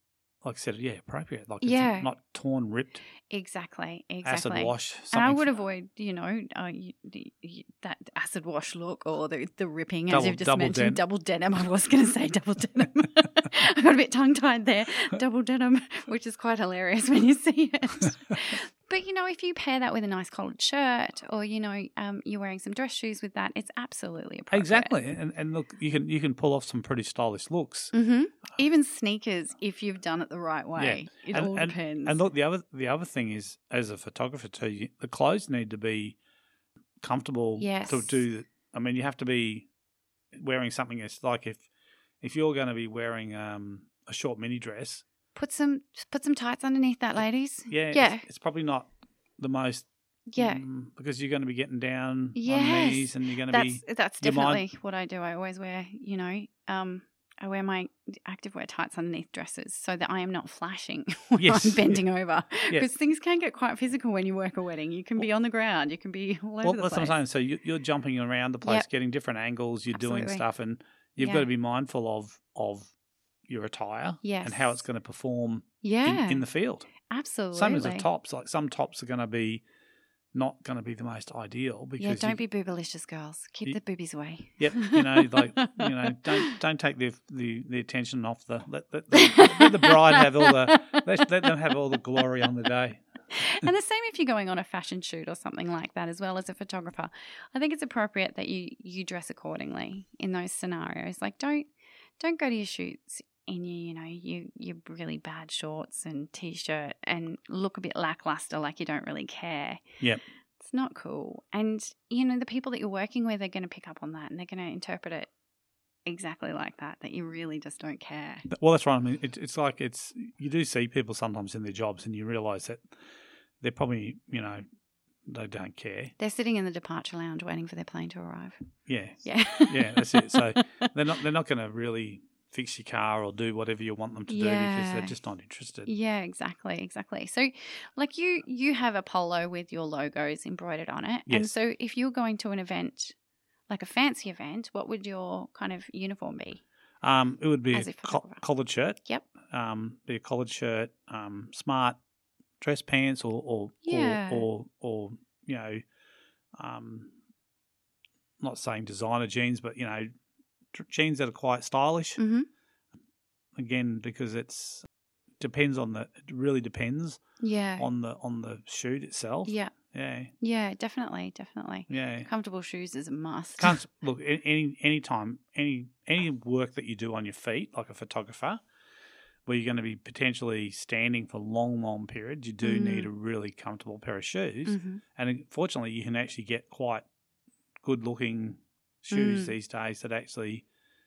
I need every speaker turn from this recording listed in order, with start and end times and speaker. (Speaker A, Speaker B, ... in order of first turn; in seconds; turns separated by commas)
Speaker A: 0.4-3.0, Speaker B: 1.6-2.1, Speaker B: 3.3-24.9, Speaker A: 4.2-5.5, Speaker A: 10.1-11.0, Speaker A: 24.5-27.9, Speaker B: 27.9-32.2, Speaker A: 30.8-36.2, Speaker A: 37.0-39.7, Speaker B: 37.6-38.1, Speaker A: 40.3-41.6, Speaker A: 42.2-45.0, Speaker B: 45.3-48.2, Speaker A: 47.7-54.6, Speaker B: 50.3-50.6, Speaker B: 52.3-67.1, Speaker A: 61.4-62.0, Speaker A: 66.6-72.9, Speaker B: 69.9-70.4, Speaker B: 71.2-71.5, Speaker A: 73.5-76.9, Speaker B: 74.2-74.8, Speaker B: 75.8-76.4, Speaker B: 77.1-78.0, Speaker A: 77.5-79.6, Speaker A: 80.3-82.4, Speaker B: 82.0-86.5, Speaker A: 84.6-93.0, Speaker B: 89.1-91.7, Speaker B: 93.3-109.8, Speaker B: 110.6-115.3, Speaker B: 116.0-118.5, Speaker A: 118.5-122.8, Speaker A: 123.6-124.6, Speaker A: 125.2-126.1, Speaker B: 126.2-128.6, Speaker A: 128.9-135.9, Speaker B: 129.2-130.9, Speaker B: 134.3-135.1, Speaker B: 135.8-143.1, Speaker A: 141.3-141.5, Speaker B: 143.7-146.6, Speaker A: 147.0-152.0, Speaker B: 147.7-148.4, Speaker A: 152.6-155.8, Speaker B: 153.8-154.5, Speaker A: 156.6-157.1, Speaker A: 158.4-160.1, Speaker A: 160.7-162.2, Speaker B: 162.2-162.5, Speaker A: 163.6-164.9, Speaker A: 165.4-167.2, Speaker B: 167.4-167.9, Speaker A: 167.8-170.3, Speaker B: 169.4-169.7, Speaker B: 170.4-173.8, Speaker A: 171.9-172.3, Speaker A: 173.6-178.6, Speaker A: 179.4-187.1, Speaker B: 182.6-183.1, Speaker B: 184.7-185.0, Speaker A: 187.8-190.6, Speaker B: 189.1-189.5